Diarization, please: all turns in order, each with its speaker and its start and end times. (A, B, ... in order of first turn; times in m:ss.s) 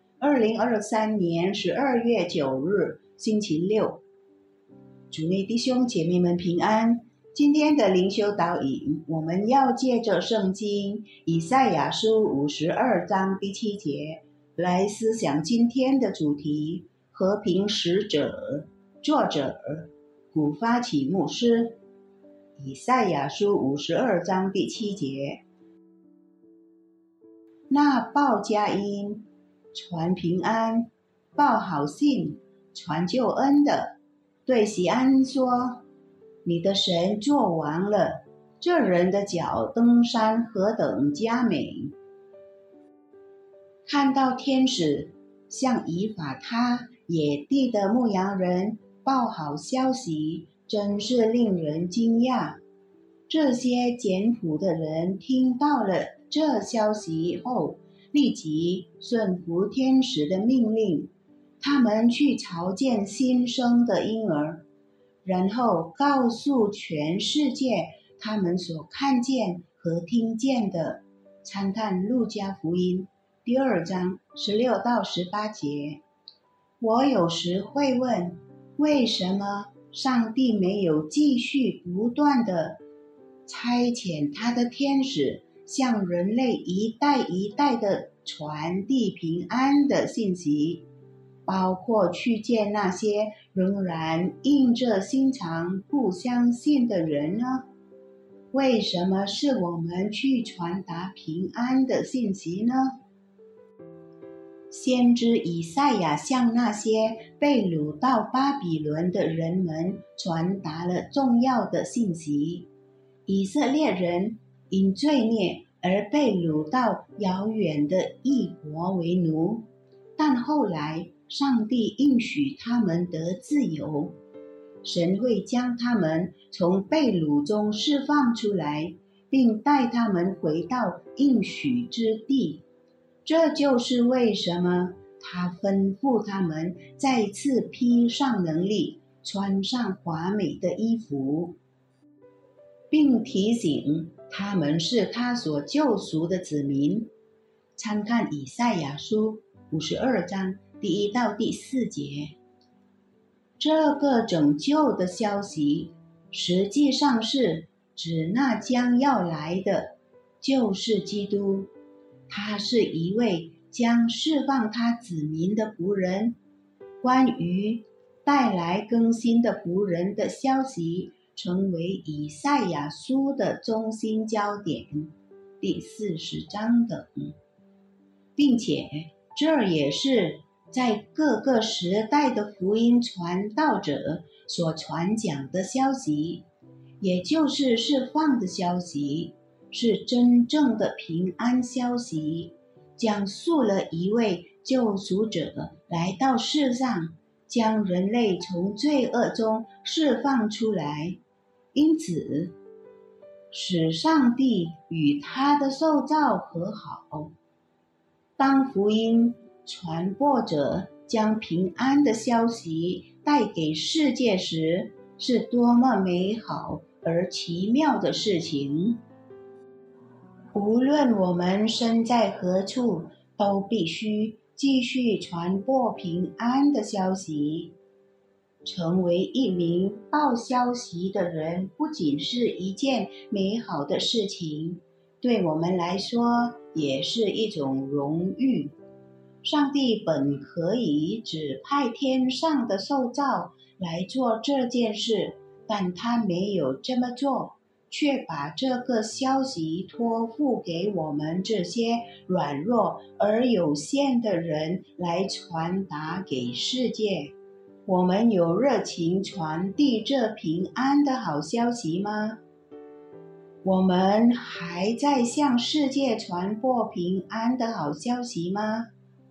0:00.2-0:04.0 A
0:05.1-0:21.8 A
0:22.6-0:25.4 A
0:27.7-0:35.8 A
0:36.4-0:41.9 A
0:43.8-0:52.6 A
0:53.3-1:04.6 A
1:05.2-1:16.0 A
1:16.8-1:22.8 A
1:23.4-1:30.9 A
1:31.4-1:37.7 A
1:38.5-1:43.0 A
1:44.7-1:52.7 A
1:53.2-2:04.2 A
2:04.8-2:12.6 A
2:13.2-2:21.6 A
2:22.9-2:27.1 A
2:27.8-2:32.3 A
2:33.6-2:41.7 A
2:42.3-2:46.4 A
2:47.0-2:57.4 A
2:58.4-3:06.4 A
3:07.0-3:21.2 A
3:21.7-3:22.6 A
3:23.5-3:27.3 A
3:28.4-3:39.0 A
3:40.5-3:47.8 A
3:48.6-3:58.7 A
3:59.4-4:17.3 A
4:17.8-4:22.4 A
4:23.6-4:28.9 A